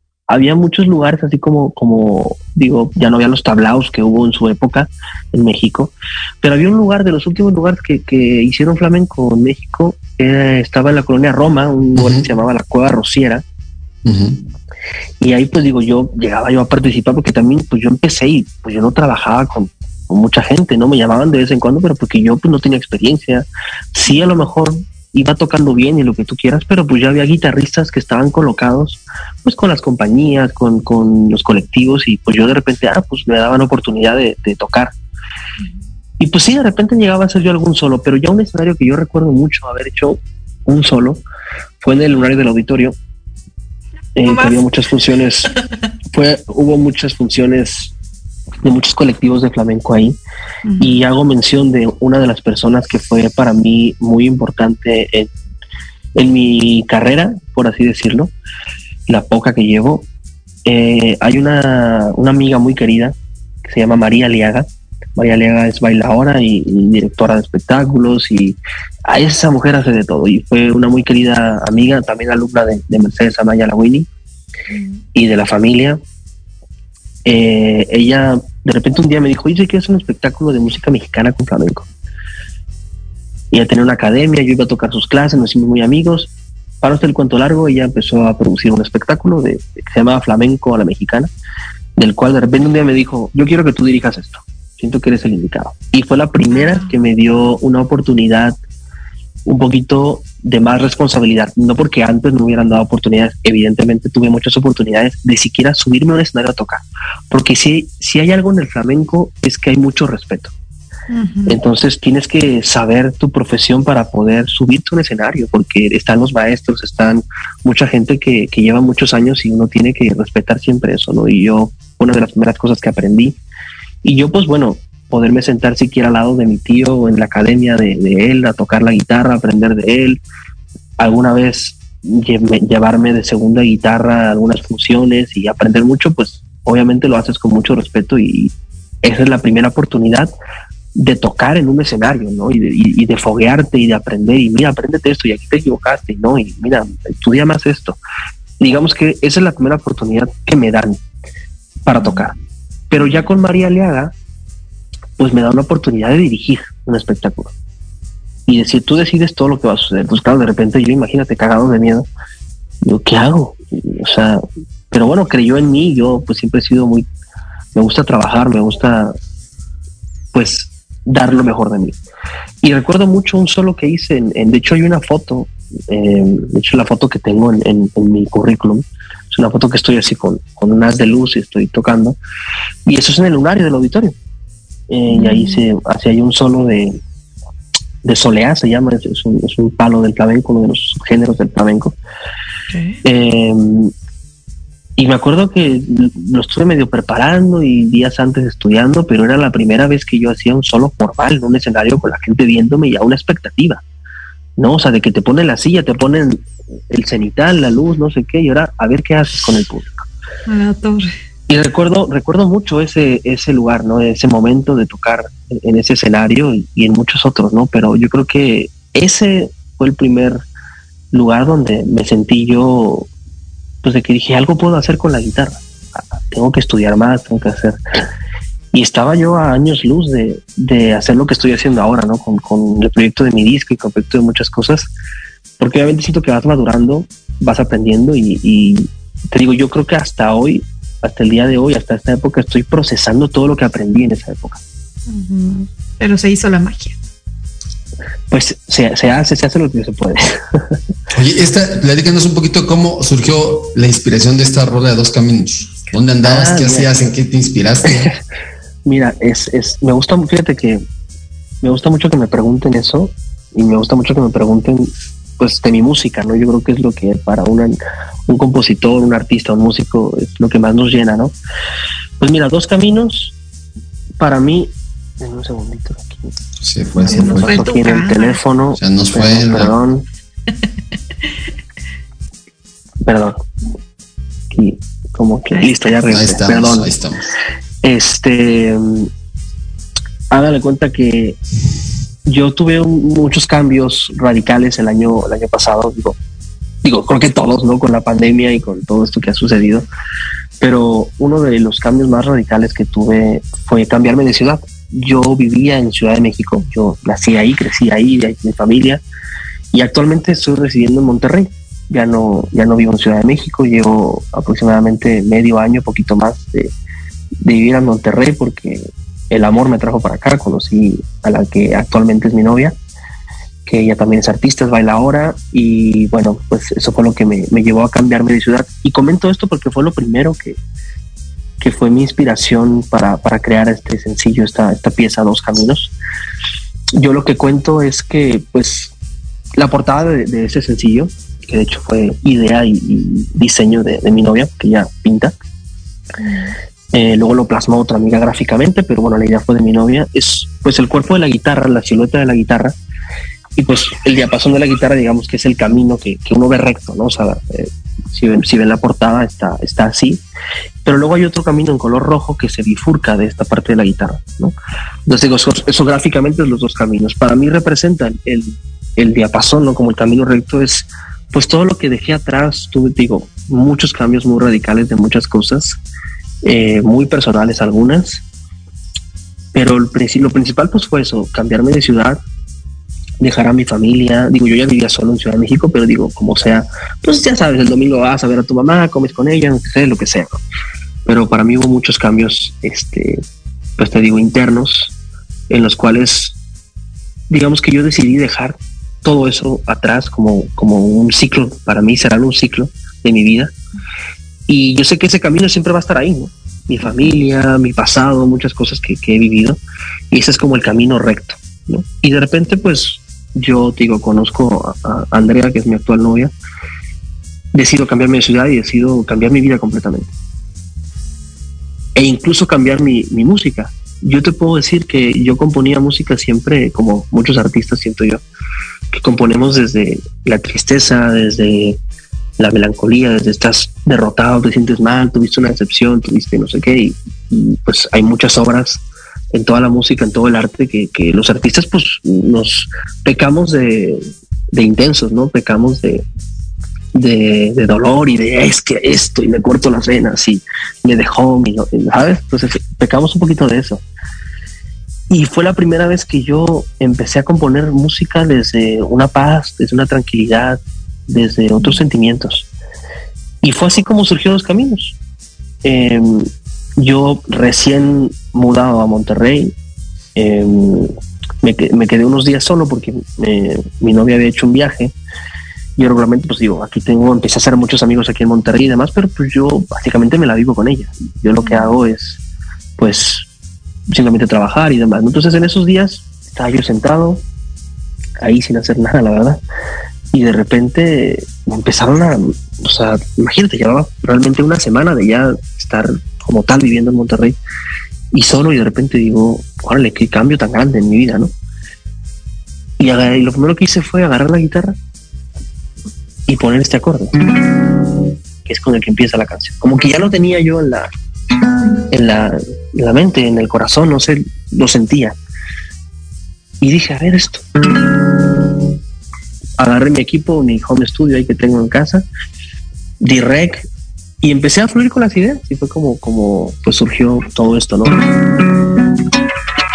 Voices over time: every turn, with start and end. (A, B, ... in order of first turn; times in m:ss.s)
0:00.3-0:13.4 A
0:11.9-0:12.2 B
0:14.0-0:14.4 B
0:15.2-0:34.9 A
0:36.2-0:41.2 A
0:41.8-0:42.9 A
0:44.2-0:45.5 A
0:44.2-0:44.6 C
0:46.1-0:47.9 A
0:48.6-0:50.2 A
0:50.6-0:51.0 C
0:50.8-0:55.3 A
0:56.1-0:58.3 A
0:59.1-1:00.0 A
1:00.6-1:14.1 A
1:14.7-1:15.0 C
1:15.1-1:16.0 A
1:17.2-1:21.9 A
1:23.5-1:26.3 A
1:26.8-1:31.3 A
1:32.0-1:38.6 A
1:36.5-1:36.9 C
1:39.4-1:50.5 A
1:51.1-1:51.6 C
1:51.5-2:03.4 A
2:04.0-2:10.2 A
2:11.0-2:20.3 A
2:20.9-2:28.0 A
2:28.6-2:31.0 A
2:31.8-2:32.3 A
2:32.9-2:34.1 A
2:35.2-2:37.5 A
2:38.5-2:42.0 A
2:42.8-2:47.0 A
2:47.7-2:49.1 A
2:50.3-2:52.0 A
2:52.6-3:02.2 A
3:02.8-3:04.1 A
3:04.9-3:07.0 A
3:05.1-3:05.6 C
3:08.0-3:12.0 A
3:12.7-3:13.0 C
3:13.0-3:13.9 A
3:15.0-3:23.8 A
3:24.6-3:30.0 A
3:30.5-3:31.1 C
3:31.5-3:40.4 A
3:41.1-3:43.1 A
3:43.8-3:45.6 A
3:46.3-3:47.8 A
3:48.7-3:54.9 A
3:55.6-4:04.6 A
4:05.1-4:07.0 C
4:08.3-4:10.6 A
4:11.1-4:18.1 B
4:16.2-4:17.0 A
4:18.8-4:20.8 A
4:21.6-4:31.3 A
4:32.2-4:33.3 A
4:34.2-4:36.3 A
4:36.6-4:37.7 B
4:37.0-4:38.4 C
4:37.0-4:40.0 A
4:38.8-4:39.7 B
4:43.0-4:43.4 A
4:44.5-4:46.9 A
4:46.0-4:47.2 B
4:47.8-4:49.1 A
4:50.3-4:51.4 A
4:52.2-4:56.2 A
4:56.8-4:59.8 A
5:00.6-5:09.0 A
5:09.7-5:16.7 A
5:17.4-5:22.8 A
5:23.6-5:30.6 A
5:31.6-5:35.9 A
5:36.9-5:38.9 A
5:39.6-5:45.3 A
5:46.2-5:46.6 C
5:46.9-5:52.7 A
5:53.6-6:00.2 A
6:00.8-6:04.5 A
6:05.0-6:15.8 A
6:16.4-6:18.2 A
6:19.5-6:22.2 A
6:23.2-6:30.4 A
6:31.0-6:33.2 A
6:33.8-6:34.9 A
6:35.5-6:36.4 A
6:37.3-6:43.5 A
6:44.5-6:49.6 A
6:50.1-6:56.3 A
6:57.5-7:00.1 A
7:02.0-7:08.2 A
7:08.9-7:11.8 A
7:12.4-7:18.8 A
7:19.3-7:26.0 A
7:26.9-7:33.8 A
7:35.1-7:42.5 A
7:43.4-7:44.9 A
7:45.6-7:49.5 A
7:50.2-7:50.9 A
7:51.4-7:54.9 A
7:55.8-8:02.2 A
8:01.4-8:01.8 C
8:02.8-8:03.2 A
8:03.9-8:07.2 A
8:08.2-8:09.4 A
8:10.1-8:17.4 A
8:18.1-8:21.3 A
8:22.8-8:24.8 A
8:26.3-8:27.2 A
8:28.4-8:30.9 A
8:31.9-8:35.2 A
8:36.6-8:37.4 A
8:39.6-8:42.0 A
8:43.0-8:43.6 A
8:44.2-8:48.1 A